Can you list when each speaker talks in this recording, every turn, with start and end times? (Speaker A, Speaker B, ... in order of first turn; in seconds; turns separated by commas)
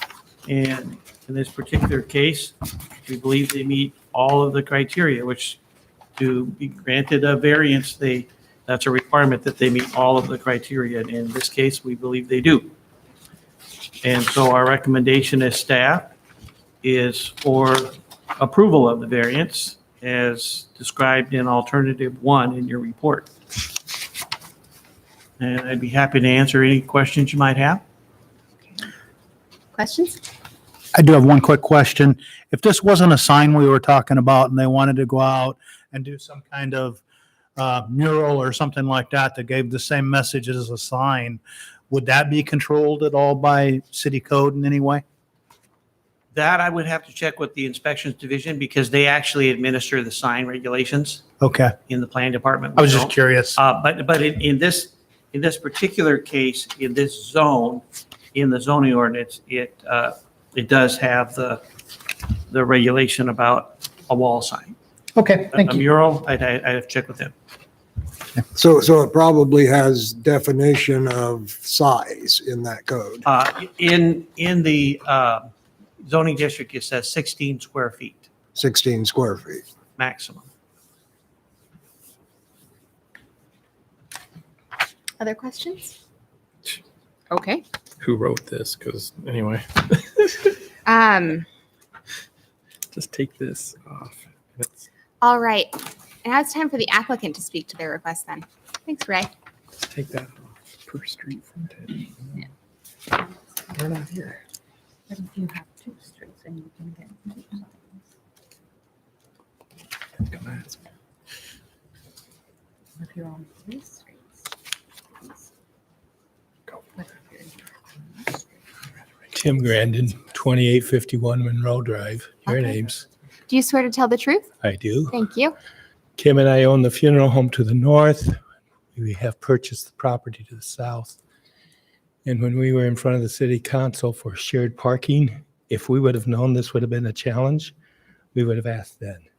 Speaker A: 0.5-5.6, Speaker A: 6.2-12.7, Speaker A: 14.0-16.1, Speaker A: 16.8-23.3, Speaker A: 25.4-27.8, Speaker B: 29.7-30.2, Speaker C: 30.9-37.0, Speaker C: 37.6-41.4, Speaker C: 41.9-45.0, Speaker A: 46.3-51.2, Speaker C: 51.4-51.7, Speaker A: 51.8-61.6, Speaker C: 52.8-53.6, Speaker A: 62.5-64.8, Speaker C: 65.2-65.8, Speaker A: 65.5-67.3, Speaker D: 68.5-73.2, Speaker A: 73.2-75.5, Speaker A: 76.0-78.3, Speaker D: 78.5-79.6, Speaker A: 80.0-80.5, Speaker B: 85.2-86.0, Speaker B: 87.3-87.6, Speaker E: 88.0-90.5, Speaker B: 90.8-91.5, Speaker E: 92.9-94.8, Speaker B: 95.2-99.3, Speaker E: 99.8-102.0, Speaker F: 103.8-104.2, Speaker F: 105.1-108.0, Speaker E: 110.3-110.6, Speaker F: 113.0-113.8, Speaker G: 119.3-123.0, Speaker B: 122.5-122.8, Speaker B: 123.5-124.5, Speaker G: 124.6-125.2, Speaker B: 125.1-125.5, Speaker G: 126.2-128.4, Speaker G: 128.9-131.2, Speaker G: 132.2-137.7, Speaker G: 138.3-139.2